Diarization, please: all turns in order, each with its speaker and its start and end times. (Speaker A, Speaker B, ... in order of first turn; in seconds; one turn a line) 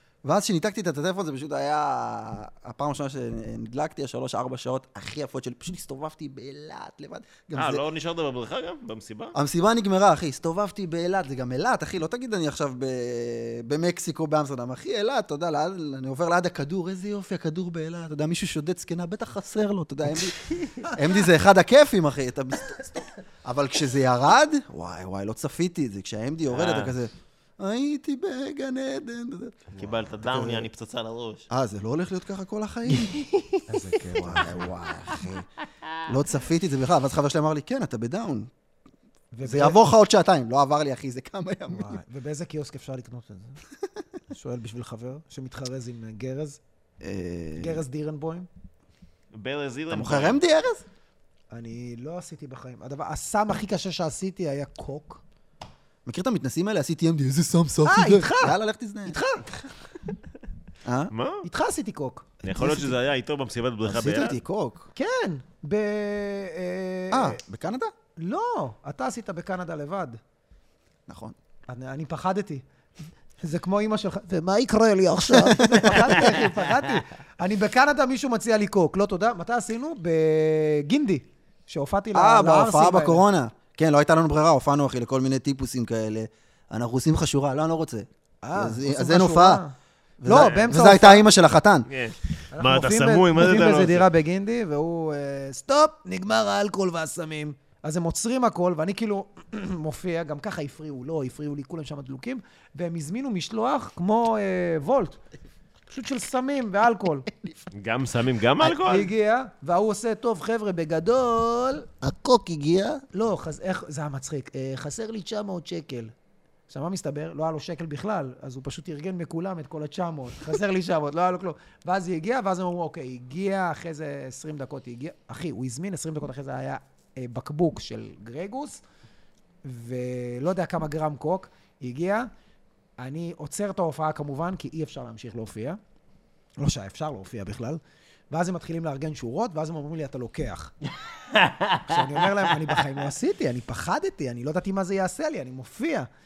Speaker A: 0.2-7.8
Speaker B: 7.5-9.3
Speaker A: 9.3-30.7
Speaker C: 20.8-21.1
Speaker B: 26.5-26.9
Speaker B: 29.8-31.5
Speaker A: 31.5-33.3
Speaker C: 33.7-34.7
Speaker A: 34.2-35.5
Speaker A: 36.1-38.5
Speaker C: 39.3-39.8
Speaker A: 39.4-42.0
Speaker C: 41.7-43.6
Speaker C: 44.3-46.6
Speaker A: 47.0-47.8
Speaker C: 47.6-48.5
Speaker B: 49.3-50.4
Speaker A: 49.9-50.9
Speaker C: 51.5-55.2
Speaker A: 56.1-59.2
Speaker C: 57.9-59.7
Speaker A: 60.8-61.1
Speaker B: 61.1-61.5
Speaker C: 61.4-62.2
Speaker B: 62.4-64.4
Speaker A: 62.5-63.0
Speaker A: 63.9-64.9
Speaker C: 65.0-67.4
Speaker A: 67.1-67.9
Speaker C: 68.2-70.2
Speaker A: 71.1-71.3
Speaker C: 71.7-72.6
Speaker C: 73.4-83.2
Speaker A: 75.4-76.1
Speaker A: 82.1-89.6
Speaker C: 88.4-91.2
Speaker A: 90.2-91.9
Speaker B: 90.4-90.7
Speaker B: 91.9-94.1
Speaker C: 92.5-105.2
Speaker C: 105.9-107.3
Speaker A: 107.3-107.6
Speaker B: 107.7-109.1
Speaker C: 108.6-111.9
Speaker A: 112.0-113.0
Speaker C: 113.1-116.1
Speaker C: 116.7-128.8
Speaker C: 129.6-132.3
Speaker C: 133.0-135.8
Speaker C: 136.6-140.7
Speaker B: 141.3-142.0
Speaker C: 141.8-146.1